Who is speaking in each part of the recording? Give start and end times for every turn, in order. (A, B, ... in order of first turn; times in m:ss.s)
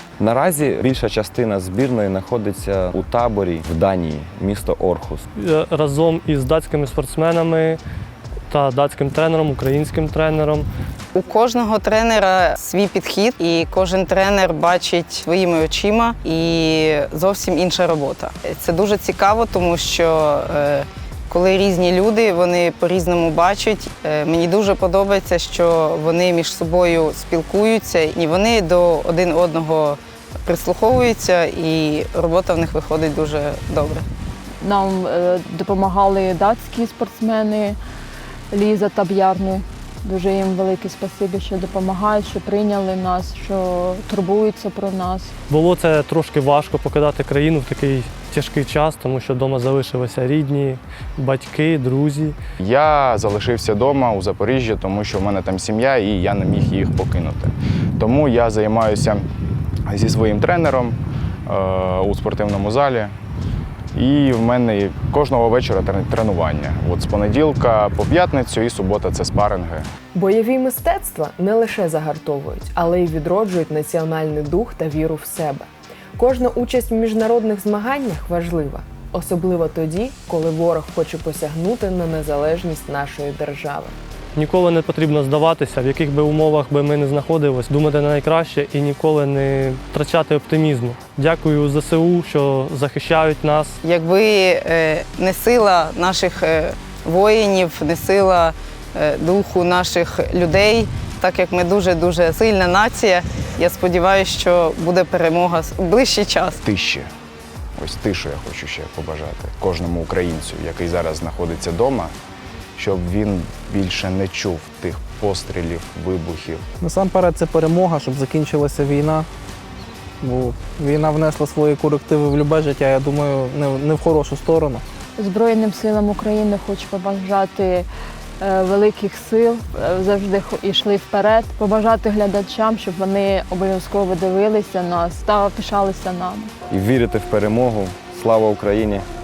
0:00.2-0:05.2 A
0:05.4-0:07.8 B
0:08.5-0:10.7 B
0:11.2-0:34.0 C
0:34.6-0:37.8 D
0:38.5-0:45.3 D
0:45.5-0:52.4 B
0:52.6-0:59.3 E
0:59.9-1:03.1 E
1:03.9-1:09.9 E
1:10.1-1:24.0 F
1:24.4-1:33.8 B
1:33.8-1:46.6 C
1:46.6-1:47.1 E
1:47.8-1:52.1 E
1:52.8-1:56.6 E
1:56.8-1:59.3 G
2:00.2-2:04.8 G
2:05.2-2:07.9 D
2:08.4-2:16.5 D
2:16.7-2:19.1 A